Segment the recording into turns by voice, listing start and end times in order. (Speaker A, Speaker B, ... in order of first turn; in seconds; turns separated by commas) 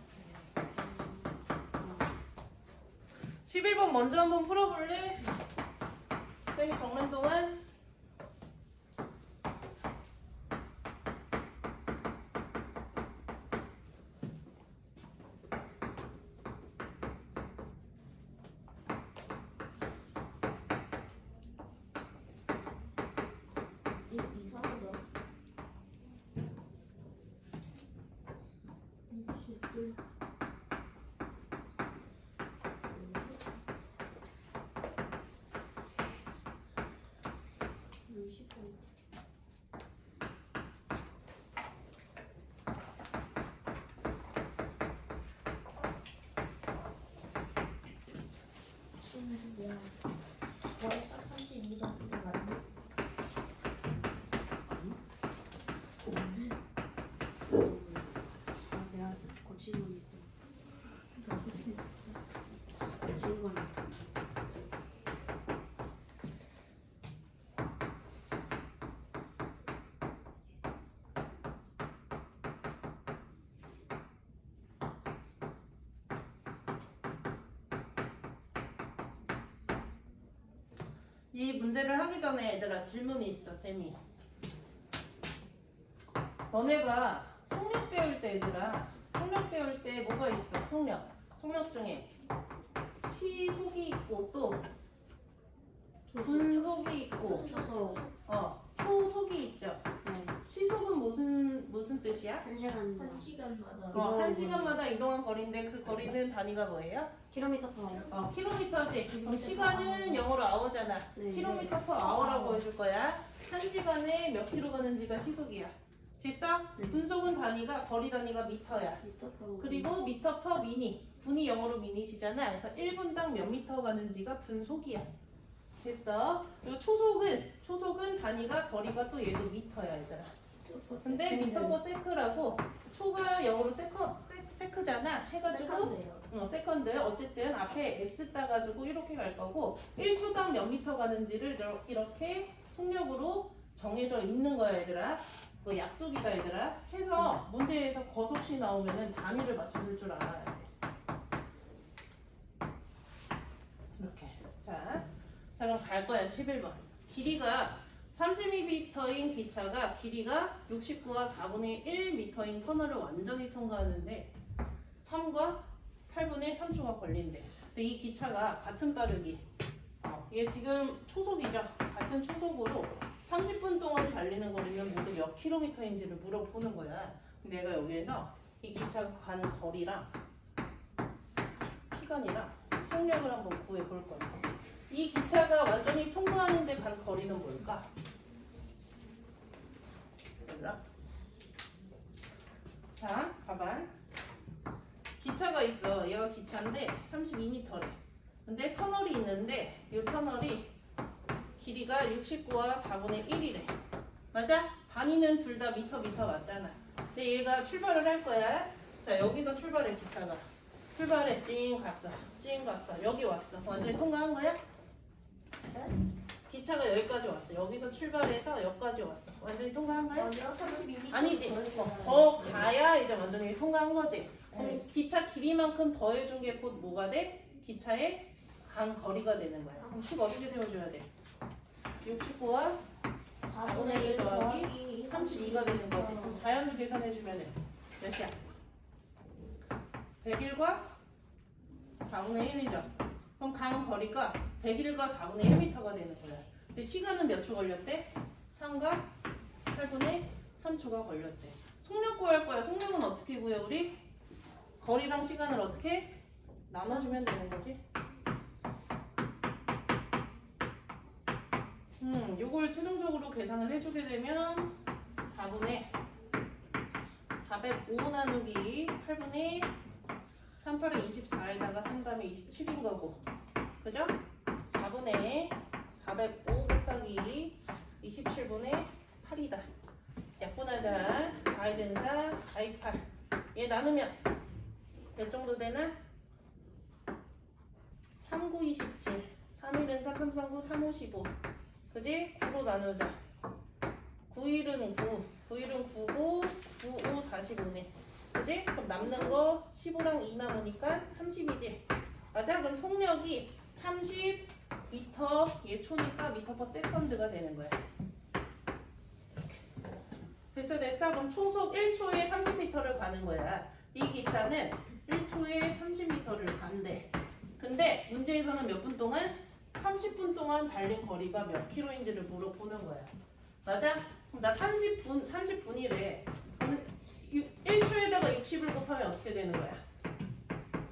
Speaker A: 0.1-2.2, Speaker B: 3.4-5.3, Speaker B: 6.5-7.6, Speaker C: 24.1-25.0, Speaker C: 29.1-29.9, Speaker C: 32.9-33.4, Speaker A: 38.0-38.8, Speaker C: 49.0-50.0, Speaker C: 50.8-52.6, Speaker A: 54.6-55.0, Speaker A: 56.1-56.5, Speaker A: 57.5-60.3, Speaker A: 63.0-64.0, Speaker B: 81.3-84.0, Speaker B: 86.5-92.1, Speaker B: 93.0-94.6, Speaker A: 96.1-96.7, Speaker B: 96.2-97.5, Speaker C: 97.2-98.1, Speaker A: 97.2-98.0, Speaker B: 98.2-99.8, Speaker A: 100.0-100.3, Speaker B: 100.4-102.5, Speaker A: 102.4-103.3, Speaker C: 102.9-104.2, Speaker A: 103.9-104.8, Speaker B: 103.9-107.1, Speaker A: 107.3-108.1, Speaker B: 108.1-119.0, Speaker C: 109.1-110.2, Speaker A: 111.2-111.7, Speaker C: 111.4-112.6, Speaker A: 119.0-119.9, Speaker B: 119.6-125.1, Speaker B: 125.8-130.3, Speaker A: 130.6-131.8, Speaker B: 131.0-150.7, Speaker C: 135.5-136.2, Speaker B: 153.9-164.3, Speaker B: 165.0-169.4, Speaker B: 170.0-180.1, Speaker B: 181.9-187.9, Speaker B: 190.4-190.8, Speaker B: 193.0-193.9, Speaker B: 195.2-200.7, Speaker B: 201.6-203.7, Speaker B: 204.3-214.6, Speaker C: 215.7-215.9, Speaker B: 216.5-220.3, Speaker C: 220.1-222.7, Speaker B: 221.1-231.1, Speaker C: 224.5-224.8, Speaker B: 232.0-232.8, Speaker C: 233.5-236.4, Speaker B: 233.5-238.4, Speaker B: 240.2-240.9, Speaker B: 242.0-249.1, Speaker B: 249.7-254.0, Speaker B: 254.8-257.8, Speaker B: 262.0-265.9, Speaker B: 267.4-269.7, Speaker B: 270.6-273.2, Speaker B: 273.8-279.7, Speaker B: 280.4-284.2, Speaker B: 285.1-286.0, Speaker B: 288.2-291.3, Speaker B: 291.9-293.2, Speaker B: 294.3-307.8, Speaker B: 310.5-323.1, Speaker B: 323.6-329.8